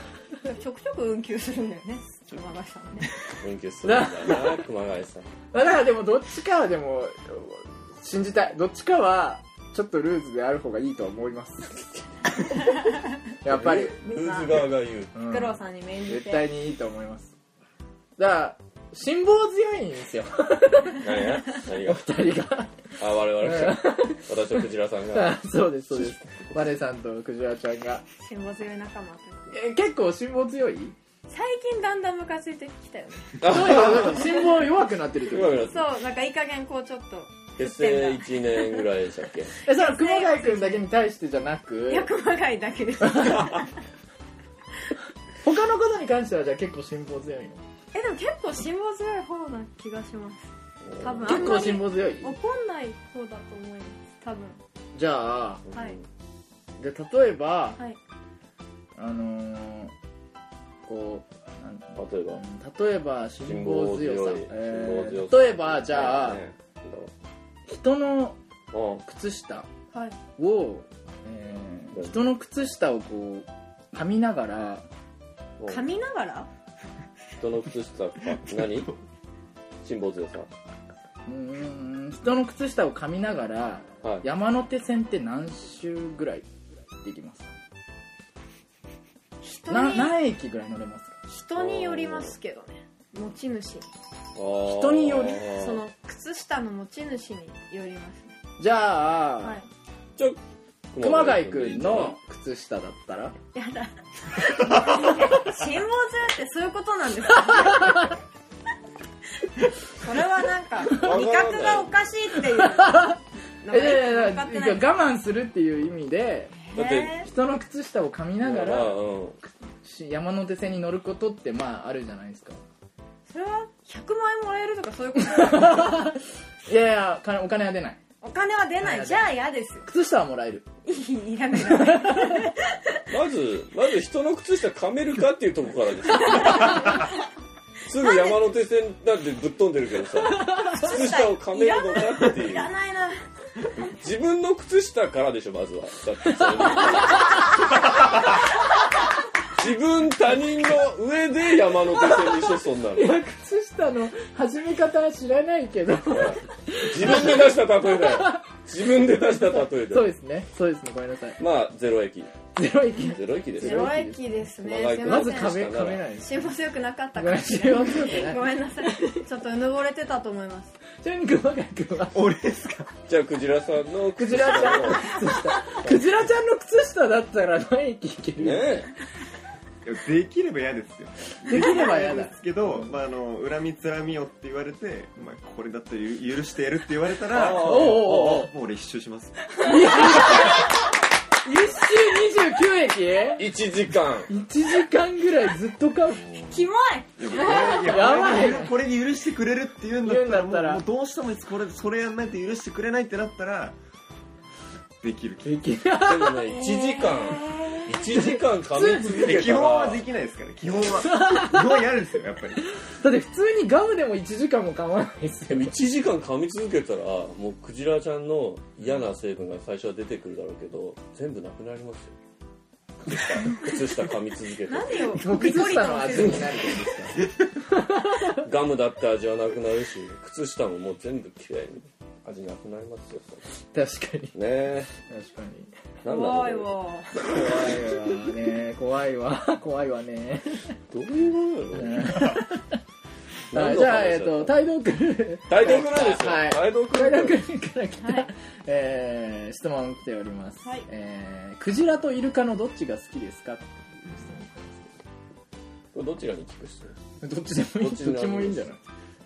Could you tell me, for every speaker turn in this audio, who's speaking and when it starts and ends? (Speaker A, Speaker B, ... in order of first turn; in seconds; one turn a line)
Speaker A: 0.4-3.1
Speaker B: 3.4-5.3
Speaker C: 3.8-4.6
Speaker C: 5.5-11.8
Speaker C: 13.4-14.0
Speaker B: 13.4-15.1
Speaker A: 14.1-16.5
Speaker C: 15.2-17.3
Speaker C: 18.2-28.0
Speaker B: 21.0-22.2
Speaker B: 23.0-25.4
Speaker B: 25.9-26.6
Speaker A: 28.2-29.6
Speaker C: 29.5-30.9
Speaker A: 31.3-33.6
Speaker B: 33.4-34.5
Speaker C: 33.4-35.7
Speaker B: 35.2-35.9
Speaker A: 35.7-38.9
Speaker B: 37.6-39.5
Speaker C: 39.6-42.1
Speaker A: 39.7-40.9
Speaker A: 41.9-43.7
Speaker C: 43.0-43.5
Speaker C: 45.4-47.6
Speaker A: 47.9-50.5
Speaker B: 50.8-51.6
Speaker A: 51.0-54.6
Speaker C: 51.2-52.4
Speaker C: 54.9-55.6
Speaker B: 55.7-56.0
Speaker C: 56.8-57.8
Speaker C: 59.0-59.9
Speaker C: 60.9-66.4
Speaker B: 62.0-62.4
Speaker B: 63.4-67.1
Speaker C: 67.7-68.4
Speaker B: 68.7-69.0
Speaker C: 69.0-69.7
Speaker C: 70.4-74.8
Speaker B: 71.9-72.2
Speaker B: 75.6-75.8
Speaker A: 75.7-76.5
Speaker B: 77.4-78.9
Speaker B: 79.8-80.5
Speaker C: 81.3-86.5
Speaker C: 87.0-87.5
Speaker A: 89.4-90.2
Speaker C: 89.7-91.2
Speaker A: 91.3-93.9
Speaker B: 91.6-92.3
Speaker B: 94.4-95.8
Speaker C: 94.6-95.6
Speaker A: 95.4-98.4
Speaker C: 98.6-99.6
Speaker B: 100.9-102.2
Speaker C: 101.0-103.3
Speaker A: 103.5-108.2
Speaker C: 107.8-108.0
Speaker A: 109.9-114.9
Speaker B: 110.9-112.0
Speaker C: 112.5-113.2
Speaker C: 113.7-116.6
Speaker A: 116.6-117.3
Speaker B: 116.7-117.2
Speaker C: 117.2-122.6
Speaker B: 118.4-119.4
Speaker A: 123.3-126.0
Speaker C: 125.3-128.0
Speaker A: 128.2-129.9
Speaker C: 128.8-130.7
Speaker A: 130.8-133.0
Speaker C: 131.7-132.5
Speaker B: 133.1-137.1
Speaker A: 136.2-137.2
Speaker B: 137.9-142.7
Speaker A: 137.9-138.4
Speaker A: 140.4-143.2
Speaker B: 143.9-148.1
Speaker B: 149.6-153.2
Speaker C: 152.1-158.4
Speaker B: 156.1-160.1
Speaker C: 159.7-161.4
Speaker B: 161.4-162.3
Speaker C: 162.6-164.3
Speaker B: 163.0-164.0
Speaker A: 163.6-170.8
Speaker B: 164.6-166.1
Speaker C: 165.0-166.5
Speaker C: 167.2-169.1
Speaker C: 171.0-172.3
Speaker D: 172.1-172.9
Speaker B: 173.1-176.1
Speaker C: 174.2-178.9
Speaker B: 178.4-178.9
Speaker D: 179.8-189.8
Speaker C: 181.4-182.9
Speaker B: 187.3-188.5
Speaker C: 187.6-188.5
Speaker C: 189.6-190.7
Speaker C: 191.4-193.5
Speaker B: 193.4-194.3
Speaker C: 194.3-196.3
Speaker D: 196.2-203.8
Speaker A: 196.5-198.6
Speaker C: 197.7-198.7
Speaker C: 200.0-200.8
Speaker D: 205.0-205.7
Speaker C: 205.4-206.5
Speaker B: 206.0-210.1
Speaker A: 206.5-207.9
Speaker C: 207.9-209.5
Speaker D: 209.1-212.6
Speaker C: 211.1-211.9
Speaker C: 212.8-215.8
Speaker B: 215.5-222.2
Speaker B: 223.1-225.2
Speaker A: 224.7-226.8
Speaker C: 225.1-228.4
Speaker B: 228.4-233.4
Speaker C: 233.7-234.4
Speaker B: 234.3-234.9
Speaker C: 234.9-235.7
Speaker B: 236.0-238.2
Speaker A: 236.1-237.2
Speaker C: 237.2-240.8
Speaker B: 240.9-242.4
Speaker C: 241.8-242.8
Speaker B: 243.5-244.6
Speaker C: 243.5-254.9
Speaker B: 245.5-247.5
Speaker A: 248.0-248.3
Speaker B: 255.9-257.0
Speaker C: 257.2-258.8
Speaker B: 257.8-258.7